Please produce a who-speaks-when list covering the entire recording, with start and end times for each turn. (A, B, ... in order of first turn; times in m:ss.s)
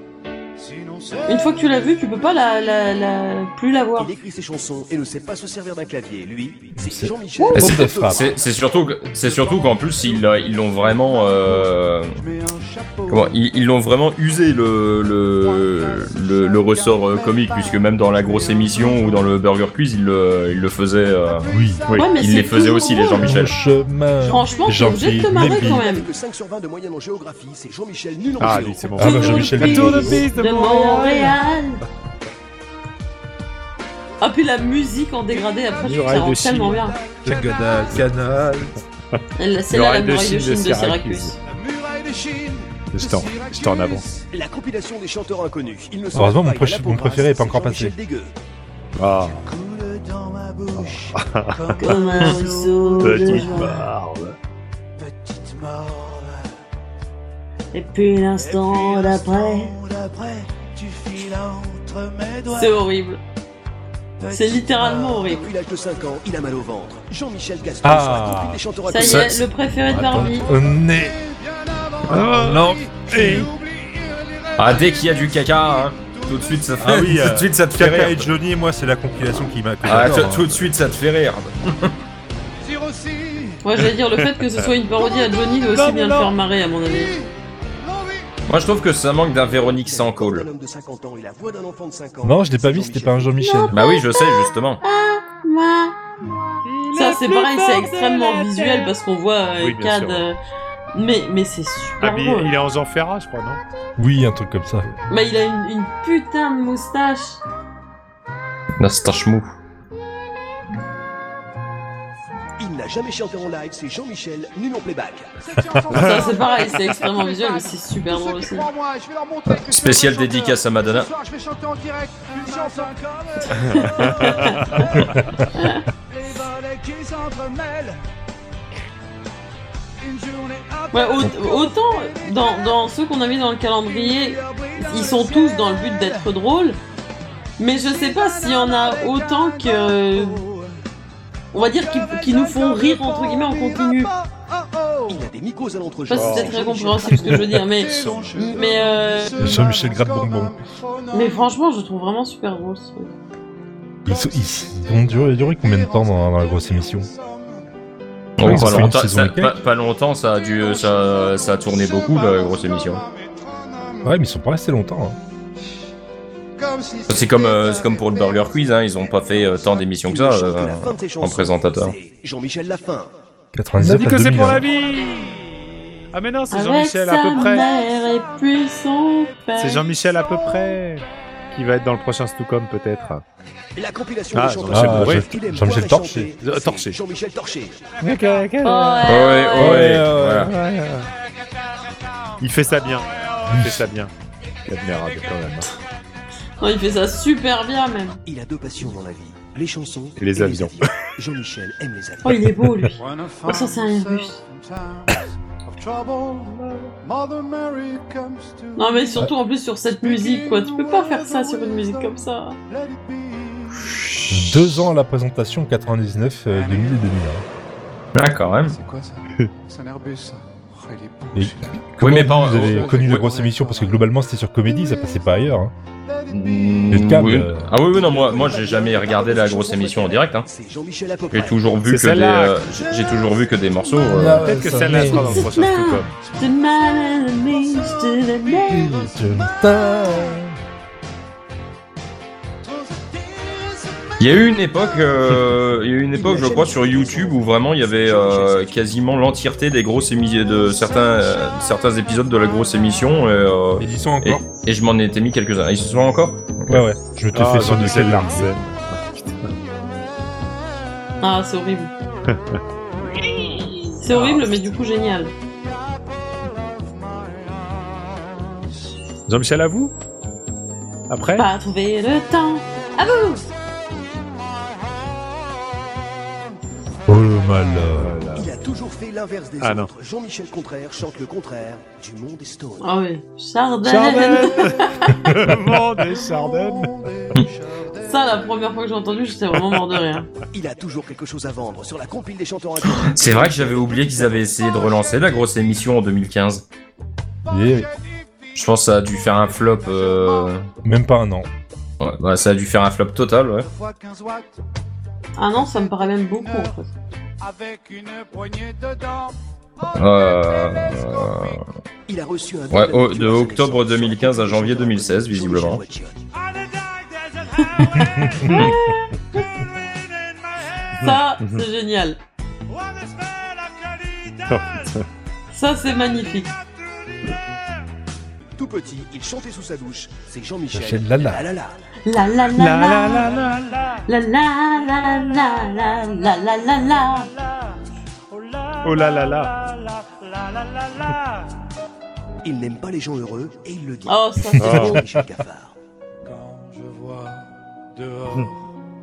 0:00.7-0:01.4 A
0:01.3-0:04.1 B
0:04.0-0:08.4 C
0:06.8-0:08.2 D
0:07.4-0:07.7 B
0:07.6-0:12.2 E
0:09.3-0:10.3 A
0:10.9-0:11.6 A
0:12.4-0:13.3 A
0:13.1-0:21.5 E
0:15.4-0:19.3 A
0:21.4-0:22.1 A
0:21.5-0:21.9 D
0:21.9-0:23.4 B
0:22.1-0:23.6 E
0:22.8-0:23.4 A
0:23.1-0:25.9 D
0:24.2-0:26.1 B
0:24.4-0:25.0 A
0:25.3-0:29.9 C
0:28.4-0:31.4 F
0:29.0-0:30.3 D
0:29.0-0:31.8 B
0:34.2-0:37.0 B
0:35.8-0:36.9 F
0:37.2-0:38.8 D
0:39.1-0:41.4 F
0:39.4-0:41.3 B
0:41.7-0:44.0 A
0:42.9-0:44.0 F
0:44.3-0:48.3 C
0:46.1-0:48.0 D
0:49.0-0:49.4 F
0:49.4-0:53.7 A
0:51.2-0:52.2 F
0:51.8-0:53.8 B
0:53.0-0:54.4 F
0:55.0-0:56.4 A
0:57.7-0:59.8 B
0:58.8-1:02.6 A
1:02.5-1:03.2 B
1:04.2-1:05.0 A
1:04.2-1:05.4 B
1:05.3-1:09.5 C
1:07.8-1:08.6 D
1:08.8-1:10.5 B
1:09.0-1:09.4 E
1:09.9-1:11.2 D
1:11.7-1:14.4 A
1:12.1-1:13.5 F
1:12.3-1:13.5 D
1:14.6-1:18.3 E
1:16.8-1:20.7 D
1:19.8-1:21.9 E
1:19.9-1:20.3 C
1:22.7-1:23.6 A
1:23.6-1:27.2 B
1:23.8-1:24.7 F
1:25.7-1:26.3 F
1:28.5-1:30.5 E
1:29.6-1:33.5 C
1:32.2-1:33.8 D
1:33.4-1:36.0 B
1:33.7-1:34.8 E
1:36.6-1:39.0 F
1:36.9-1:40.4 B
1:39.6-1:40.3 F
1:40.9-1:42.6 B
1:42.0-1:43.6 F
1:44.0-1:44.9 D
1:45.1-1:47.4 B
1:48.8-1:49.5 E
1:52.6-1:55.3 C
1:55.6-2:03.6 A
1:55.9-1:56.8 F
1:56.0-1:58.7 B
1:59.5-2:01.1 E
2:03.5-2:05.0 B
2:03.6-2:04.7 F
2:05.1-2:05.5 D
2:05.6-2:05.8 B
2:06.2-2:08.0 A
2:10.1-2:11.5 A
2:10.9-2:16.8 B
2:14.5-2:15.2 A
2:17.6-2:20.5 B
2:21.5-2:24.1 B
2:25.1-2:27.5 C
2:26.1-2:29.5 B
2:26.1-2:26.6 F
2:27.1-2:27.4 D
2:27.9-2:31.2 A
2:29.4-2:30.6 D
2:31.1-2:33.1 B
2:34.1-2:37.1 D
2:35.6-2:35.9 A
2:37.1-2:37.4 A
2:38.4-2:43.0 E
2:38.4-2:39.5 D
2:41.3-2:43.0 A
2:44.0-2:45.2 D
2:46.7-2:47.2 A
2:47.1-2:52.0 E
2:50.0-2:53.1 C
2:53.6-2:54.6 D
2:53.8-2:57.7 F
2:56.5-2:59.9 B
2:59.6-3:03.2 F
3:03.8-3:07.9 C
3:04.3-3:05.3 F
3:04.7-3:06.3 D
3:06.4-3:07.0 F
3:08.0-3:09.1 F
3:08.6-3:09.9 B
3:09.0-3:10.5 E
3:09.6-3:10.5 D
3:10.4-3:11.1 F
3:12.4-3:14.1 F
3:13.4-3:13.8 D
3:14.7-3:15.7 F
3:16.6-3:18.2 B
3:18.3-3:22.4 C
3:20.2-3:20.9 F
3:22.2-3:24.4 B
3:23.1-3:24.3 A
3:25.8-3:29.0 A
3:28.8-3:32.6 B
3:30.0-3:31.9 A
3:32.9-3:33.6 A
3:33.8-3:34.9 E
3:34.3-3:37.4 D
3:38.2-3:38.8 E
3:38.7-3:41.7 A
3:41.4-3:45.7 D
3:42.0-3:43.3 E
3:42.5-3:44.0 A
3:46.3-3:50.5 E
3:46.3-3:47.0 A
3:46.9-3:47.7 D
3:47.9-3:51.6 C
3:51.3-3:54.6 E
3:51.8-3:52.7 F
3:54.1-3:55.5 D
3:54.3-3:56.1 F
3:54.9-3:59.1 B
3:58.7-4:00.6 D
4:04.2-4:16.8 E
4:06.1-4:09.2 C
4:13.8-4:14.4 D
4:16.7-4:18.6 D
4:17.3-4:19.5 F
4:21.2-4:21.9 B
4:22.3-4:22.6 F
4:23.5-4:25.3 B
4:24.1-4:24.8 F
4:29.3-4:30.0 F
4:31.1-4:31.5 F
4:31.4-4:33.5 B
4:37.1-4:38.1 D
4:38.0-4:38.5 F
4:38.4-4:42.9 C
4:39.6-4:39.9 F
4:42.8-4:45.0 B
4:43.8-4:47.0 F
4:44.0-4:47.9 A
4:48.0-4:50.3 B
4:50.5-4:54.0 C
4:53.0-4:56.7 E
4:57.5-4:57.9 D
4:58.5-5:00.7 E
5:00.8-5:01.5 D
5:02.0-5:03.7 E
5:03.8-5:04.5 A
5:05.4-5:06.9 B
5:07.4-5:09.3 A
5:10.0-5:11.6 E
5:12.1-5:16.2 C
5:12.7-5:15.8 E
5:17.6-5:19.6 B
5:18.2-5:18.6 D
5:21.0-5:21.7 F
5:21.0-5:22.2 B
5:24.1-5:24.4 A
5:24.5-5:25.1 F
5:25.5-5:26.6 B
5:28.6-5:31.8 C
5:30.7-5:31.4 D
5:32.0-5:33.3 B
5:32.5-5:33.9 F
5:34.1-5:37.4 B
5:38.8-5:39.7 F
5:42.4-5:45.8 C
5:44.1-5:45.0 B
5:44.6-5:45.0 F
5:44.6-5:45.2 D
5:46.3-5:47.5 A
5:48.0-5:48.5 A